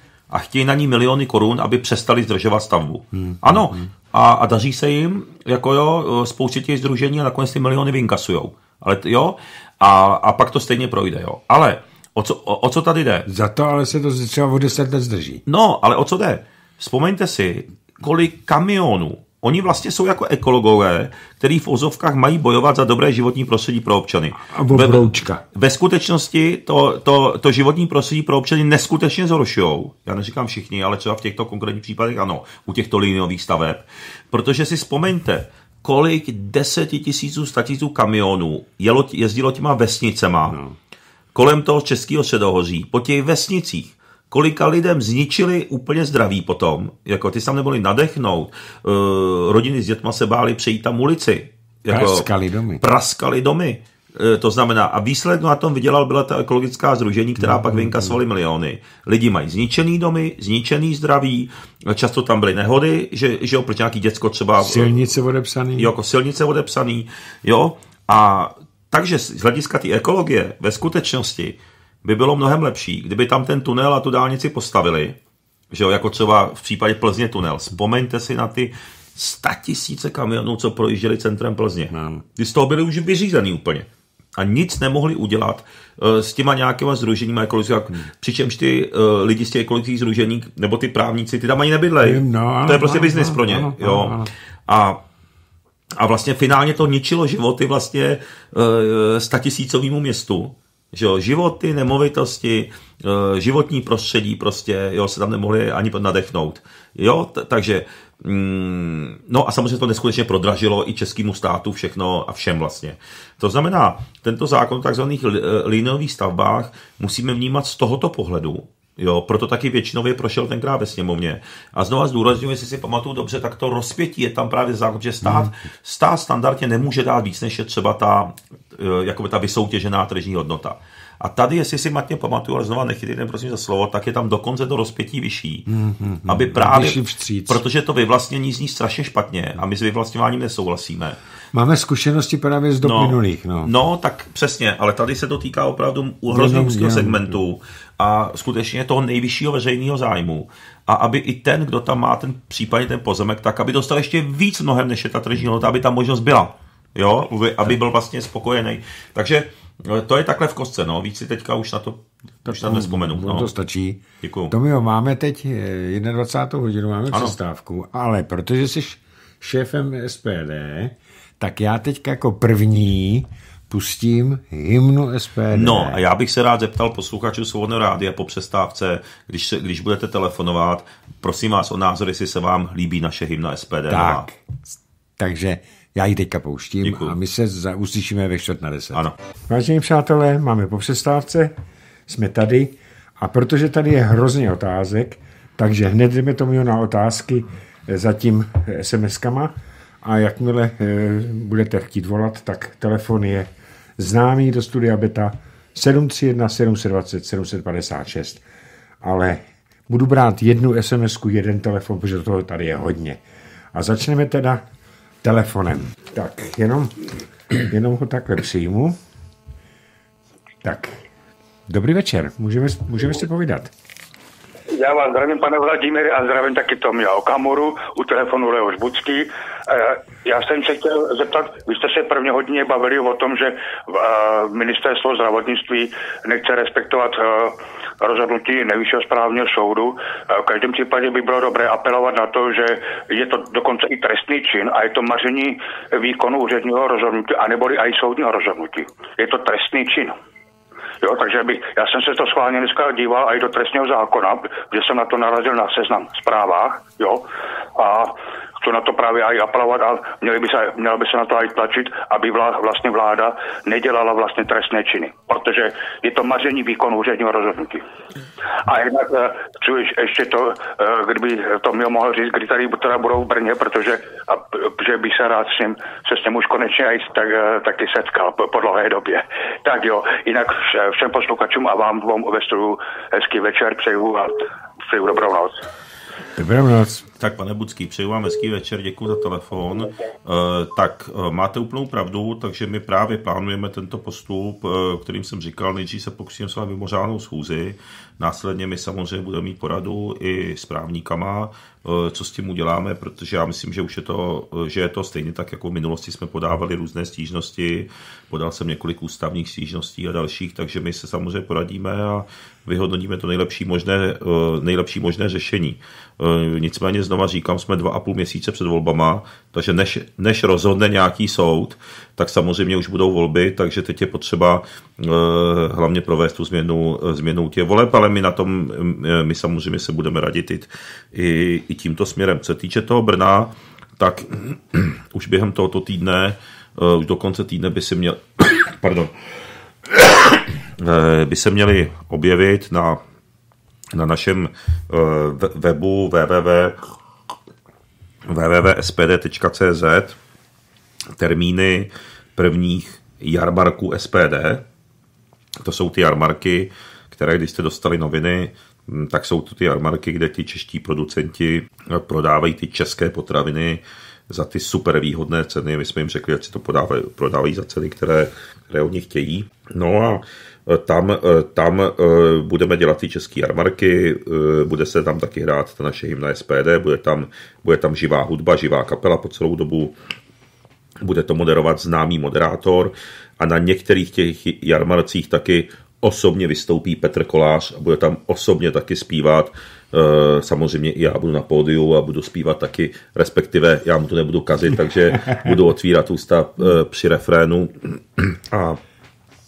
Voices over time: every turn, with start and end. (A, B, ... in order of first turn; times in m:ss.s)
0:00.3-0:13.3 A
0:03.1-0:03.9 B
0:13.3-0:15.4 B
0:15.5-0:40.6 A
0:24.3-0:25.4 B
0:40.5-0:40.8 B
0:41.4-0:52.3 A
0:51.9-0:52.8 B
0:52.8-1:05.0 A
0:57.4-0:58.1 B
1:04.6-1:05.9 B
1:05.8-1:15.2 A
1:15.7-1:35.0 A
1:21.9-1:22.2 B
1:32.0-1:34.3 B
1:36.0-2:15.7 A
2:15.7-2:17.6 B
2:16.3-2:21.2 A
2:21.5-2:23.7 B
2:22.8-2:43.5 A
2:26.3-2:27.4 B
2:42.5-2:56.0 B
2:44.2-2:44.5 A
2:55.5-3:04.3 A
3:03.9-3:11.5 B
3:06.8-3:07.2 A
3:12.1-3:19.5 B
3:20.0-3:28.4 B
3:29.0-3:33.2 B
3:33.7-3:34.6 B
3:35.2-3:39.0 B
3:40.6-3:41.0 B
3:41.7-3:43.7 B
3:44.7-4:10.2 C
4:11.0-4:27.8 C
4:28.6-4:45.6 C
4:46.4-4:47.1 B
4:47.2-5:39.1 A
5:39.9-5:43.0 A
5:43.9-5:46.8 A
5:48.3-5:50.2 A
5:51.2-5:54.6 A
5:55.6-6:20.0 A
6:21.0-6:38.8 A